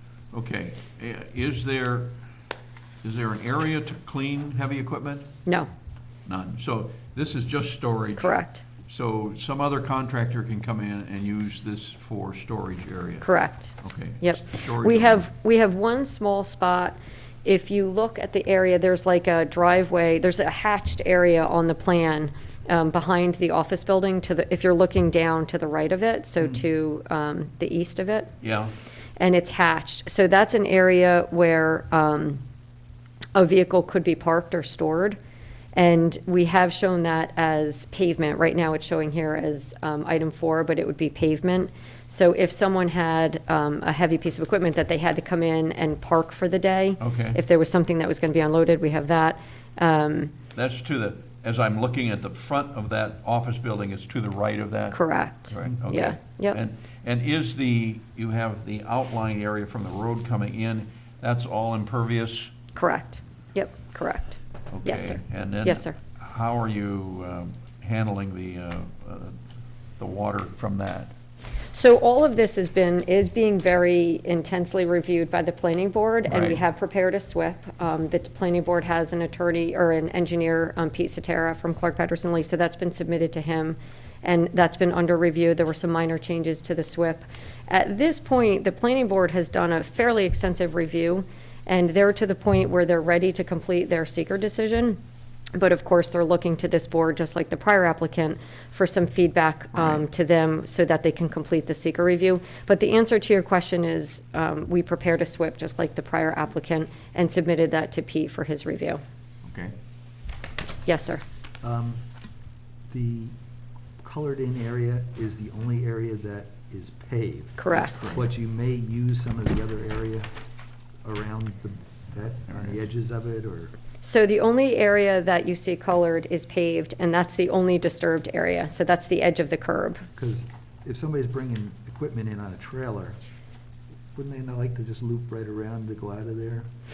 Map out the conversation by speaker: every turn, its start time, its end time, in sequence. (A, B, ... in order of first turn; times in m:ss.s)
0:00.3-0:02.1 A
0:03.0-0:05.4 A
0:06.2-0:08.3 A
0:08.2-0:08.6 B
0:08.8-0:13.3 A
0:13.2-0:28.3 B
0:13.8-0:15.3 A
0:28.4-0:28.7 A
0:29.2-0:32.4 B
0:33.3-0:35.2 B
0:35.7-0:50.3 B
0:47.0-0:47.4 A
0:50.5-1:02.5 A
0:54.9-0:56.6 B
1:02.7-1:05.9 B
1:04.7-1:09.3 A
1:10.0-1:11.1 A
1:11.7-1:35.0 B
1:16.3-1:16.6 A
1:35.5-1:49.0 B
1:39.8-1:40.0 A
1:49.4-1:49.7 A
1:50.8-1:51.2 B
1:51.6-1:52.0 C
1:52.9-1:53.3 C
1:54.0-2:00.3 C
1:57.6-1:58.0 B
1:57.7-1:58.3 A
2:01.0-2:03.7 C
2:02.5-2:02.8 A
2:04.0-2:10.0 B
2:10.2-2:13.2 C
2:14.1-2:16.7 C